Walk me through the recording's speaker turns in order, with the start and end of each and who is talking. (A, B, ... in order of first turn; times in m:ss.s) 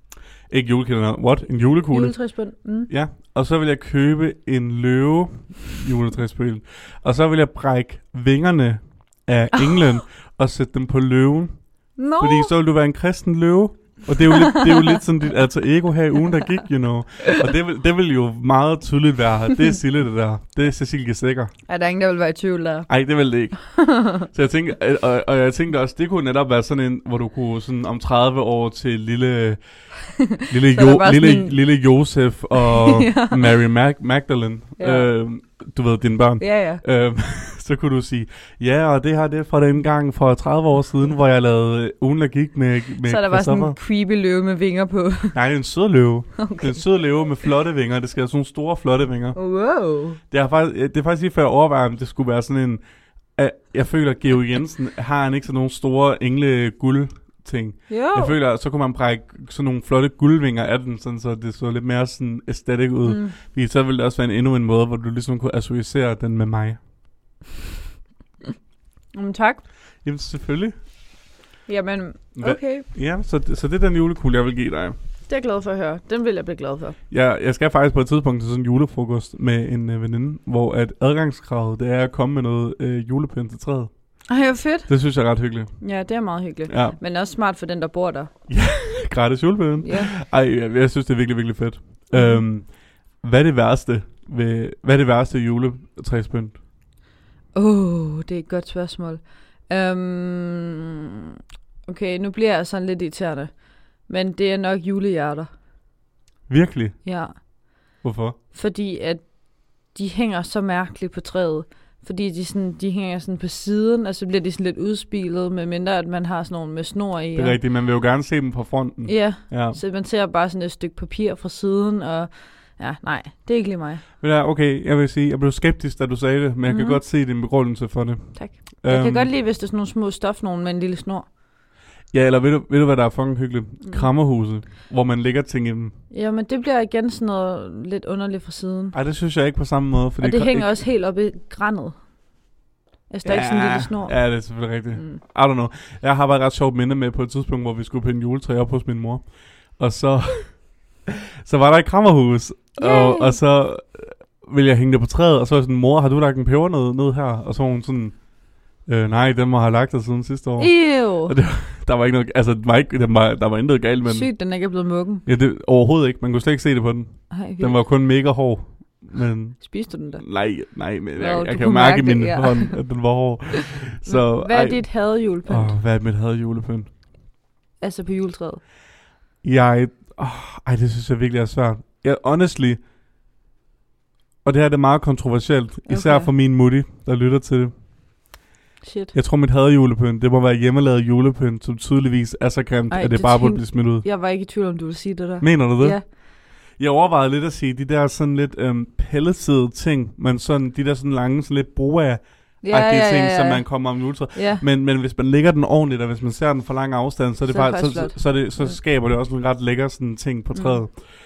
0:00.5-0:02.2 A
0:01.9-0:02.9 B
0:02.9-0:11.5 A
0:09.6-0:09.8 B
0:12.0-0:12.5 B
0:12.2-0:21.5 A
0:14.3-0:15.0 B
0:21.7-0:22.9 B
0:22.9-0:29.6 A
0:23.6-0:24.3 B
0:30.2-0:31.5 B
0:30.5-0:43.8 A
0:32.5-0:33.5 B
0:34.8-0:35.1 B
0:36.4-0:36.8 B
0:43.0-0:45.4 B
0:45.3-0:49.4 A
0:46.4-0:46.9 B
0:49.3-0:50.2 B
0:50.3-0:52.8 A
0:53.4-1:06.8 A
0:57.9-0:58.3 B
1:03.0-1:03.3 B
1:09.1-1:09.6 B
1:10.0-1:10.7 A
1:11.7-1:12.9 B
1:12.4-1:15.0 A
1:15.3-1:17.0 B
1:17.1-1:23.9 A
1:24.3-1:24.9 B
1:24.9-1:25.7 A
1:25.8-1:28.3 B
1:26.7-1:27.0 A
1:28.5-1:32.7 A
1:29.8-1:30.1 B
1:32.1-1:32.4 B
1:33.2-1:36.6 A
1:37.5-1:40.9 B
1:41.9-1:45.5 B
1:46.5-1:47.0 A
1:47.0-1:47.4 B
1:48.0-1:48.4 A
1:48.5-1:57.6 B
1:57.3-1:59.8 A
1:59.0-2:04.0 B
2:04.2-2:09.3 A
2:06.6-2:07.0 B
2:08.3-2:11.3 B
2:12.1-2:15.9 A
2:16.1-2:18.9 B
2:18.9-2:20.7 A
2:20.2-2:21.9 B
2:23.1-2:24.2 B
2:23.2-2:38.2 A
2:24.9-2:25.2 B
2:32.8-2:33.4 B
2:38.8-2:44.3 A
2:40.6-2:41.4 B
2:44.0-2:45.2 B
2:45.2-2:56.9 A
2:47.3-2:47.8 B
2:49.6-2:50.2 B
2:51.2-2:52.8 B
2:54.0-2:55.7 B
2:57.8-2:58.6 B
2:59.4-3:02.8 A
3:04.4-3:07.7 A
3:05.9-3:06.3 B
3:08.8-3:09.1 B
3:09.1-3:14.0 A
3:12.9-3:16.1 B
3:15.4-3:16.2 A
3:16.8-3:31.0 A
3:22.6-3:24.6 B
3:27.5-3:28.8 B
3:30.5-3:30.8 B